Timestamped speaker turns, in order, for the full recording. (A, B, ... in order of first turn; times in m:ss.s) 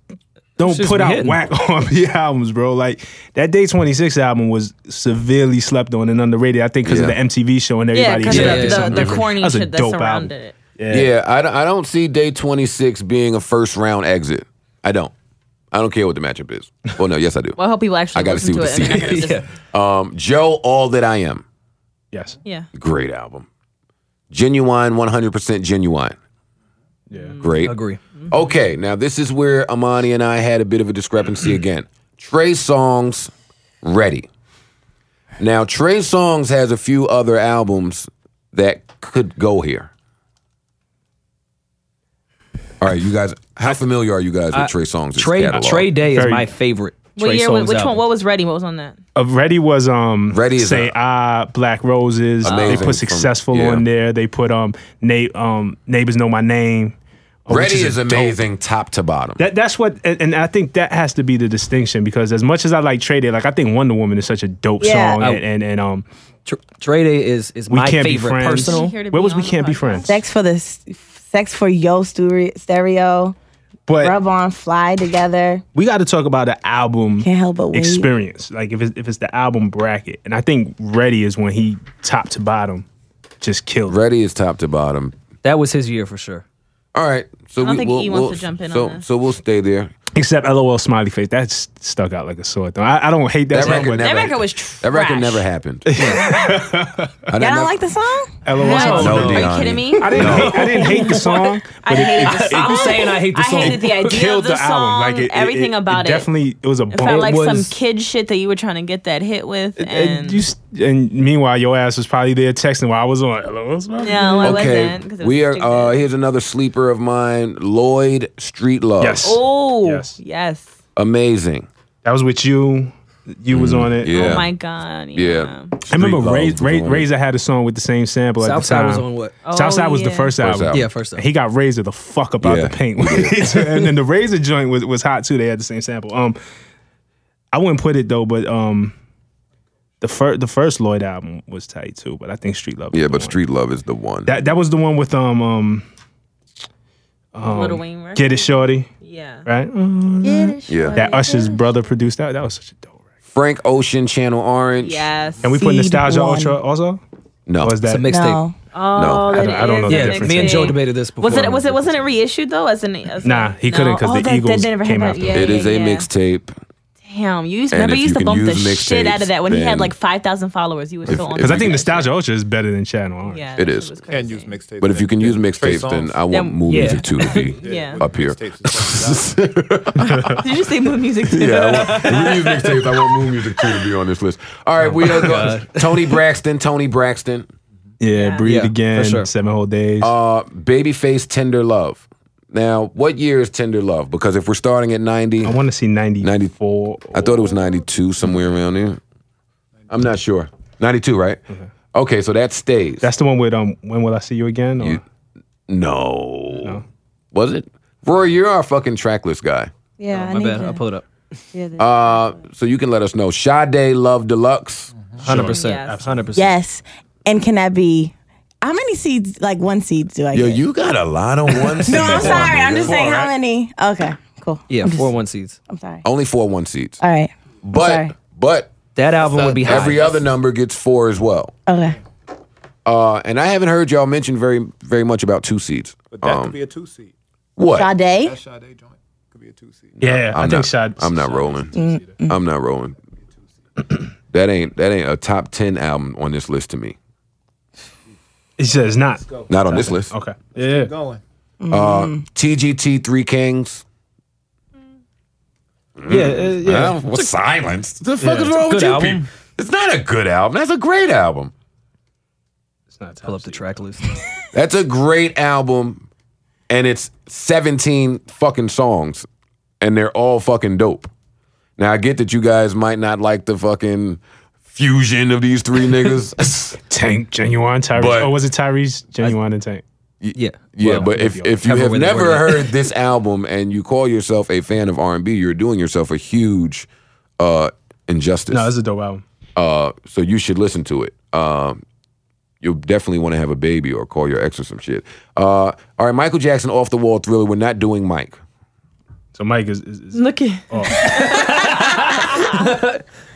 0:00.6-0:11.1 A
0:00.6-0:01.4 B
0:06.8-0:07.2 C
0:07.9-0:10.6 D
0:08.3-0:09.0 B
0:08.9-0:09.2 C
0:10.9-0:15.1 C
0:15.7-0:17.6 C
0:17.6-0:19.5 D
0:18.1-0:21.4 C
0:18.9-0:19.5 B
0:22.1-0:22.4 A
0:22.7-0:23.5 C
0:24.3-0:26.2 C
0:27.1-0:27.6 D
0:27.4-0:27.8 C
0:27.6-0:28.0 B
0:28.3-0:34.3 C
0:35.4-0:39.9 C
0:42.8-0:45.9 C
0:44.5-0:48.0 B
0:46.1-0:46.5 A
0:47.2-0:49.0 D
0:49.1-0:58.4 A
0:50.3-0:51.0 C
0:52.4-0:53.8 C
0:52.4-0:52.9 D
0:57.5-0:59.4 C
0:59.4-1:06.0 A
1:04.8-1:05.2 E
1:06.5-1:09.0 B
1:07.7-1:10.1 A
1:08.6-1:10.2 D
1:10.1-1:13.4 E
1:13.9-1:14.1 A
1:14.0-1:15.6 E
1:15.7-1:22.9 A
1:17.2-1:18.1 E
1:23.4-1:24.0 A
1:23.9-1:25.1 C
1:25.4-1:26.4 B
1:27.0-1:29.9 C
1:27.6-1:29.0 D
1:30.1-1:34.2 A
1:33.5-1:35.9 C
1:33.7-1:35.4 D
1:35.9-1:37.2 A
1:36.0-1:36.3 B
1:37.3-1:37.8 C
1:37.4-1:38.4 E
1:38.4-1:39.4 A
1:38.6-1:39.5 B
1:38.6-1:46.3 D
1:39.0-1:40.6 C
1:40.0-1:47.7 A
1:40.2-1:41.4 B
1:42.0-1:44.1 B
1:46.9-1:50.5 D
1:47.0-1:47.7 B
1:49.8-1:54.7 A
1:54.0-1:56.0 D
1:54.4-1:59.4 C
1:59.0-2:00.2 A
1:59.2-2:00.7 D
2:01.0-2:01.7 C
2:02.0-2:04.4 A
2:03.5-2:04.5 C
2:04.1-2:05.8 D
2:05.1-2:07.1 C
2:05.9-2:16.4 A
2:08.4-2:09.4 B
2:09.4-2:10.4 D
2:10.4-2:10.9 C
2:10.7-2:11.3 B
2:12.4-2:13.6 C
2:17.5-2:19.0 A
2:20.0-2:23.4 A
2:22.9-2:24.3 C
2:24.3-2:25.8 A
2:27.4-2:28.9 A
2:27.4-2:29.5 D
2:29.5-2:32.9 A
2:30.2-2:31.7 E
2:30.7-2:31.0 C
2:33.3-2:35.1 C
2:34.8-2:35.5 D
2:35.4-2:37.0 A
2:35.5-2:36.6 E
2:37.5-2:37.8 C
2:37.6-2:38.1 A
2:37.8-2:38.4 B
2:38.1-2:38.6 E
2:38.7-2:46.1 D
2:39.0-2:39.5 C
2:39.1-2:40.8 A
2:39.9-2:42.1 B
2:43.2-2:45.6 A
2:45.3-2:46.5 C
2:47.0-2:52.1 D
2:47.7-2:49.9 C
2:51.1-2:51.8 C
2:51.4-2:53.5 A
2:53.2-2:54.6 D
2:53.6-2:53.9 C
2:54.1-2:56.2 F
2:54.8-3:00.4 C
2:56.3-2:58.0 D
2:56.7-2:57.6 B
2:57.6-2:59.4 F
3:00.0-3:00.4 A
3:00.1-3:02.4 D
3:01.2-3:07.5 C
3:01.8-3:02.8 B
3:04.9-3:06.2 B
3:05.0-3:05.5 A
3:08.0-3:10.1 A
3:08.1-3:08.5 D
3:08.4-3:09.3 B
3:10.0-3:15.6 C
3:15.4-3:17.6 A
3:16.2-3:16.5 C
3:17.1-3:19.0 C
3:19.9-3:21.4 C
3:21.9-3:23.1 C
3:23.0-3:25.0 A
3:25.7-3:26.8 C
3:27.3-3:29.7 C
3:30.0-3:30.8 E
3:30.1-3:31.1 B
3:31.5-3:32.4 E
3:31.8-3:34.9 C
3:34.9-3:35.5 F
3:35.2-3:36.3 A
3:35.2-3:36.5 B
3:35.5-3:36.1 D
3:36.4-3:40.6 E
3:40.3-3:43.1 C
3:41.6-3:45.1 E
3:42.0-3:42.5 B
3:42.0-3:43.3 A
3:44.7-3:45.6 B
3:45.7-3:46.0 E
3:46.0-3:47.0 C
3:47.0-3:48.1 E
3:47.6-3:48.7 C
3:49.0-3:50.2 B
3:49.1-3:50.3 F
3:49.6-3:51.5 C
3:51.7-3:52.0 E
3:52.8-3:56.6 C
3:56.1-3:57.1 F
3:57.6-3:57.9 C
3:57.7-3:58.4 E
3:58.2-4:00.0 F
4:00.0-4:01.7 C
4:00.0-4:01.9 A
4:01.3-4:02.1 F
4:01.7-4:02.4 E
4:02.3-4:03.0 C
4:04.3-4:07.0 C
4:08.6-4:10.9 A
4:08.8-4:09.5 F
4:09.5-4:10.1 C
4:10.5-4:11.2 F
4:11.6-4:12.2 E
4:11.7-4:13.8 C
4:16.0-4:21.5 C
4:16.1-4:17.0 A
4:18.2-4:18.6 A
4:18.6-4:19.3 B
4:22.9-4:23.8 A
4:23.2-4:24.1 B
4:24.5-4:26.1 C
4:26.7-4:29.3 C
4:29.8-4:31.1 C
4:31.8-4:36.8 C
4:36.9-4:39.8 A
4:38.0-4:38.3 C
4:40.2-4:46.9 C
4:40.4-4:41.1 B
4:40.8-4:41.6 A
4:41.6-4:42.7 B
4:47.4-4:48.7 C
4:48.5-4:49.2 A
4:49.6-4:51.8 C
4:52.6-4:58.4 C
4:59.4-5:01.2 A
5:00.1-5:02.4 D
5:01.0-5:03.0 B